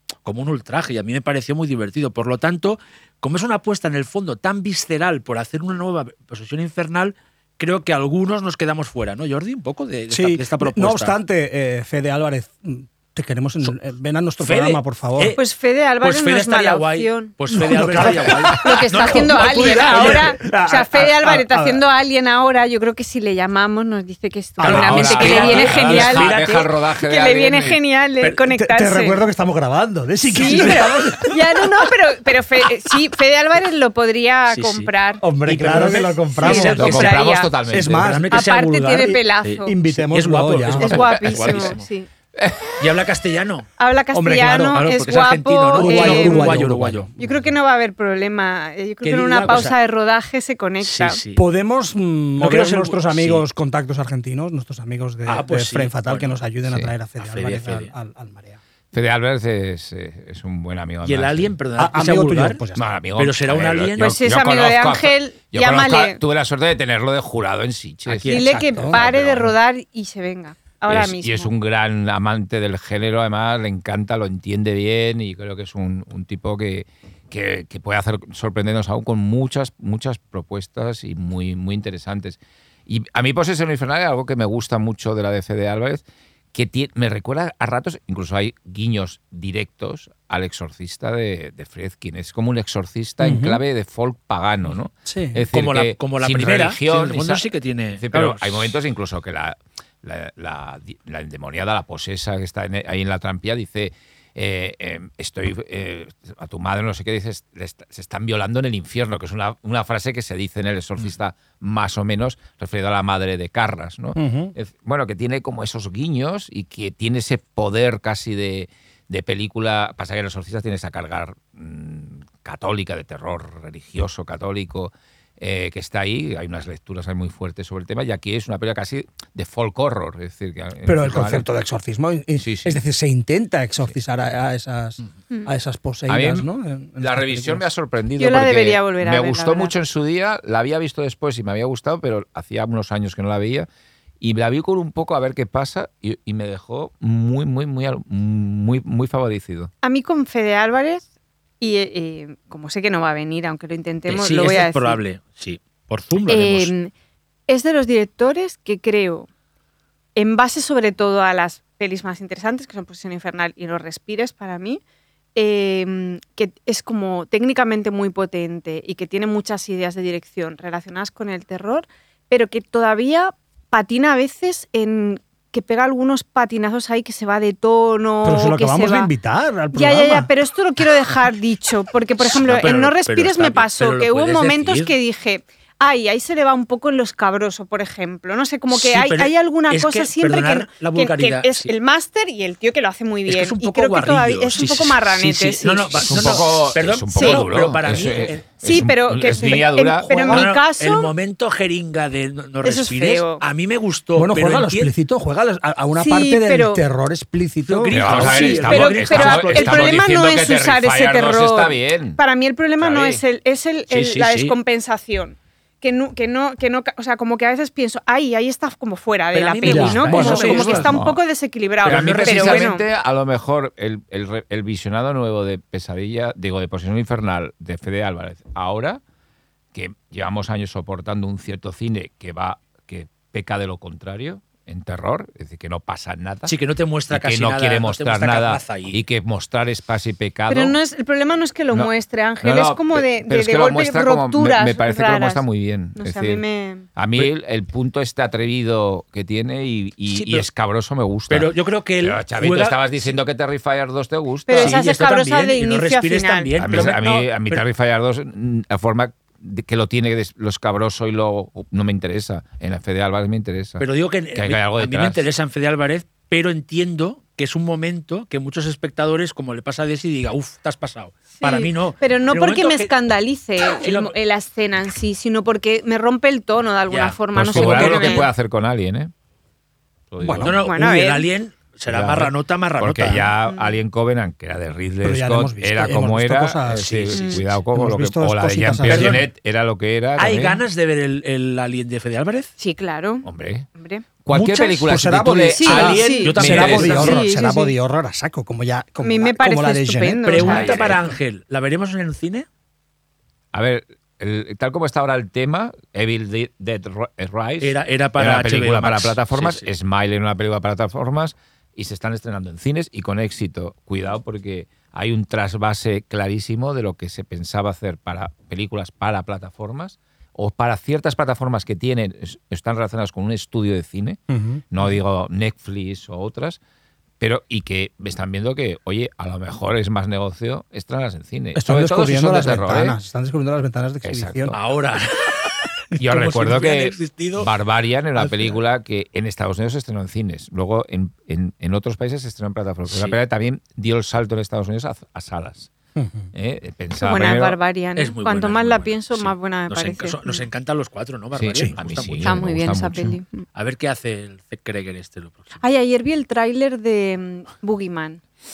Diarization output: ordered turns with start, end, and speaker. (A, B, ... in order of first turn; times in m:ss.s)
0:00.2-0:11.2 A
0:10.1-0:15.4 B
0:14.4-0:15.4 A
0:15.3-0:17.3 C
0:16.0-0:20.3 A
0:17.5-0:21.8 B
0:18.0-0:29.2 C
0:24.6-0:25.9 B
0:24.6-0:26.7 A
0:24.7-0:27.8 D
0:28.5-0:31.7 B
0:30.3-0:35.2 C
0:30.6-0:30.9 A
0:34.5-0:34.9 A
0:35.2-0:41.1 B
0:35.4-0:37.2 A
0:36.4-0:37.5 C
0:36.5-0:38.2 D
0:37.8-0:41.8 A
0:38.3-0:39.7 C
0:40.8-0:42.1 C
0:41.3-0:41.7 D
0:42.3-0:42.9 D
0:42.8-0:43.7 A
0:43.8-0:46.6 C
0:44.1-0:44.9 B
0:44.7-0:47.1 A
0:45.8-0:47.5 B
0:47.2-0:51.2 C
0:49.0-0:49.7 A
0:50.8-0:51.4 A
0:51.3-0:58.6 B
0:52.4-0:53.4 A
0:55.2-0:56.4 A
0:56.7-0:56.9 D
0:57.2-0:57.9 A
0:58.9-1:01.5 D
1:01.0-1:02.6 A
1:01.8-1:02.9 B
1:02.7-1:08.4 D
1:03.2-1:04.2 A
1:04.0-1:06.2 C
1:08.0-1:09.1 A
1:08.3-1:11.5 C
1:08.3-1:09.0 B
1:08.9-1:09.3 D
1:10.9-2:11.4 D
1:33.2-1:33.6 B
1:35.0-1:35.4 B
1:35.5-1:38.7 A
1:54.1-1:54.5 B
2:10.8-2:17.6 B
2:12.4-2:12.8 D
2:16.1-2:16.5 D
2:17.0-2:23.7 D
2:18.2-2:19.7 C
2:24.2-2:29.7 D
2:29.8-2:31.0 C
2:31.6-2:35.0 C
2:34.1-2:36.7 A
2:36.3-2:36.9 C
2:37.5-2:39.3 C
2:40.2-2:44.8 C
2:45.3-2:59.1 C
2:58.2-3:00.3 B
2:59.7-3:16.4 C
3:02.2-3:04.9 A
3:08.7-3:11.7 A
3:13.3-3:18.4 A
3:16.1-3:20.3 D
3:17.1-3:17.5 C
3:18.6-3:21.1 C
3:20.1-3:20.5 B
3:20.2-3:24.9 A
3:22.6-3:23.4 C
3:24.2-3:28.4 B
3:26.0-3:26.8 C
3:27.6-3:30.1 A
3:27.9-3:32.2 D
3:28.2-3:42.8 C
3:32.8-3:33.2 D
3:33.9-3:34.6 A
3:39.3-3:40.9 A
3:39.6-3:41.0 B
3:40.9-3:41.2 D
3:41.8-3:42.7 A
3:41.8-3:49.0 D
3:49.7-3:56.5 D
3:56.4-3:59.0 A
3:57.1-4:00.8 D
4:00.5-4:05.4 C
4:01.7-4:06.4 D
4:06.0-4:06.9 C
4:07.0-4:14.8 D
4:10.1-4:10.5 A
4:11.3-4:13.1 A
4:14.5-4:17.0 C
4:14.5-4:17.6 A
4:16.6-4:25.2 D
4:23.8-4:32.9 A
4:31.4-4:38.3 C
4:33.7-4:34.1 A
4:36.9-4:38.3 A
4:37.3-4:39.1 D
4:40.1-4:40.7 D
4:40.2-4:40.6 B
4:40.4-4:43.3 A
4:40.6-4:41.3 C
4:41.9-4:50.6 D
4:43.4-4:43.8 C
4:45.0-4:47.0 B
4:46.7-4:47.5 A
4:47.1-4:47.4 C
4:47.6-4:49.2 B
4:48.8-4:49.2 A
4:50.2-4:52.5 A
4:52.6-4:54.0 C
4:53.2-4:53.7 D
4:54.2-4:57.2 D
4:54.3-4:54.9 A
4:54.8-5:00.4 B
4:55.6-4:57.7 C
4:55.6-4:57.2 A
4:59.0-5:00.9 C
5:00.2-5:02.5 A
5:00.4-5:01.1 D
5:03.5-5:24.2 D
5:07.6-5:09.7 A
5:24.3-5:24.6 B
5:24.7-5:26.6 D
5:27.2-5:33.0 D
5:31.5-5:34.5 B
5:34.0-5:34.6 D
5:34.5-5:37.5 A
5:36.0-5:45.7 D
5:38.2-5:38.6 B
5:42.9-5:43.2 A
5:46.0-5:46.3 B
5:46.3-5:47.6 D
5:47.0-5:50.4 C
5:48.0-5:52.4 A
5:51.4-5:53.2 D
5:52.2-5:53.4 C
5:53.5-5:55.6 A
5:55.6-5:58.2 C